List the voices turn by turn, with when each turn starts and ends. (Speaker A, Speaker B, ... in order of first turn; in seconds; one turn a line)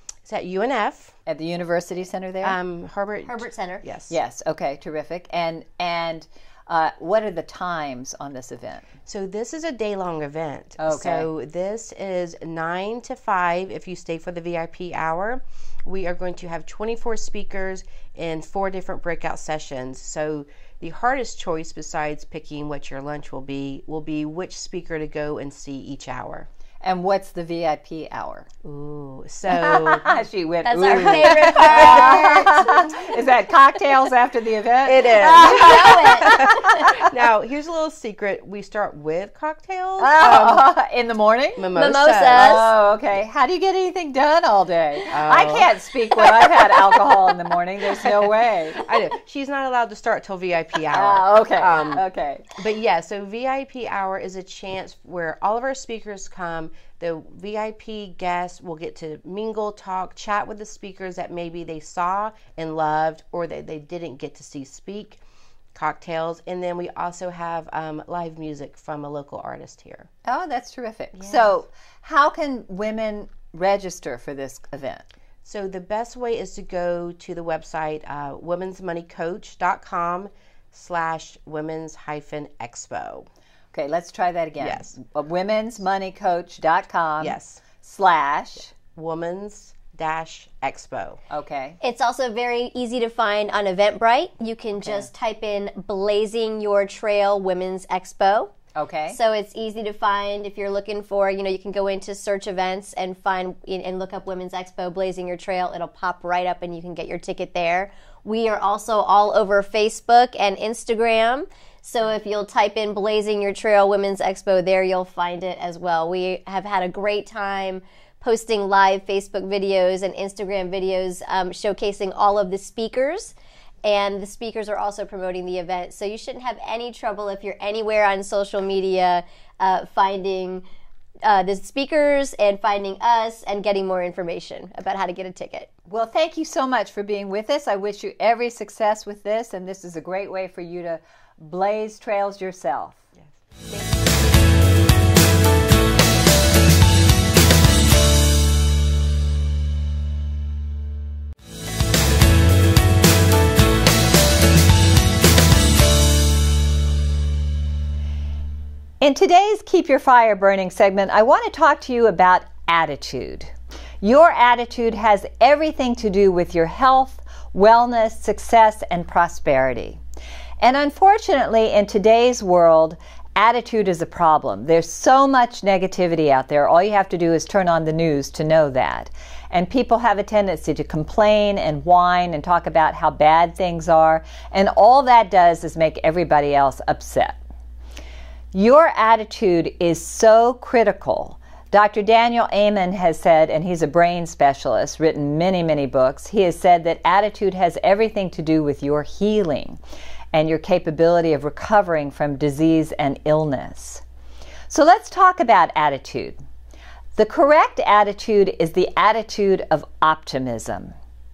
Speaker A: 0.2-1.1
Speaker B: 1.3-2.6
Speaker A: 2.4-4.1
Speaker C: 3.2-3.8
Speaker B: 4.1-8.9
Speaker A: 9.1-26.5
Speaker B: 10.8-11.3
Speaker B: 26.8-28.5
Speaker A: 28.6-30.1
Speaker B: 29.5-37.0
Speaker C: 30.6-32.7
Speaker A: 30.8-32.6
Speaker A: 34.8-40.7
Speaker C: 35.1-36.8
Speaker B: 40.0-41.6
Speaker A: 41.6-42.7
Speaker C: 41.7-42.7
Speaker B: 42.3-48.8
Speaker A: 45.1-46.6
Speaker A: 48.8-52.0
Speaker B: 50.9-52.5
Speaker A: 52.6-65.2
Speaker A: 65.7-70.1
Speaker B: 70.2-75.0
Speaker A: 71.2-71.5
Speaker A: 75.4-83.3
Speaker B: 83.7-88.7
Speaker A: 84.6-84.9
Speaker A: 87.2-87.6
Speaker A: 88.9-91.2
Speaker B: 91.3-91.8
Speaker C: 91.8-98.5
Speaker B: 94.8-95.1
Speaker B: 98.7-99.2
Speaker C: 99.1-130.6
Speaker C: 131.2-135.7
Speaker B: 135.9-143.0
Speaker A: 143.2-143.9
Speaker B: 159.0-170.0
Speaker B: 170.6-187.4
Speaker B: 188.5-199.8
Speaker B: 200.3-204.0
Speaker B: 204.7-206.3
Speaker B: 207.1-210.9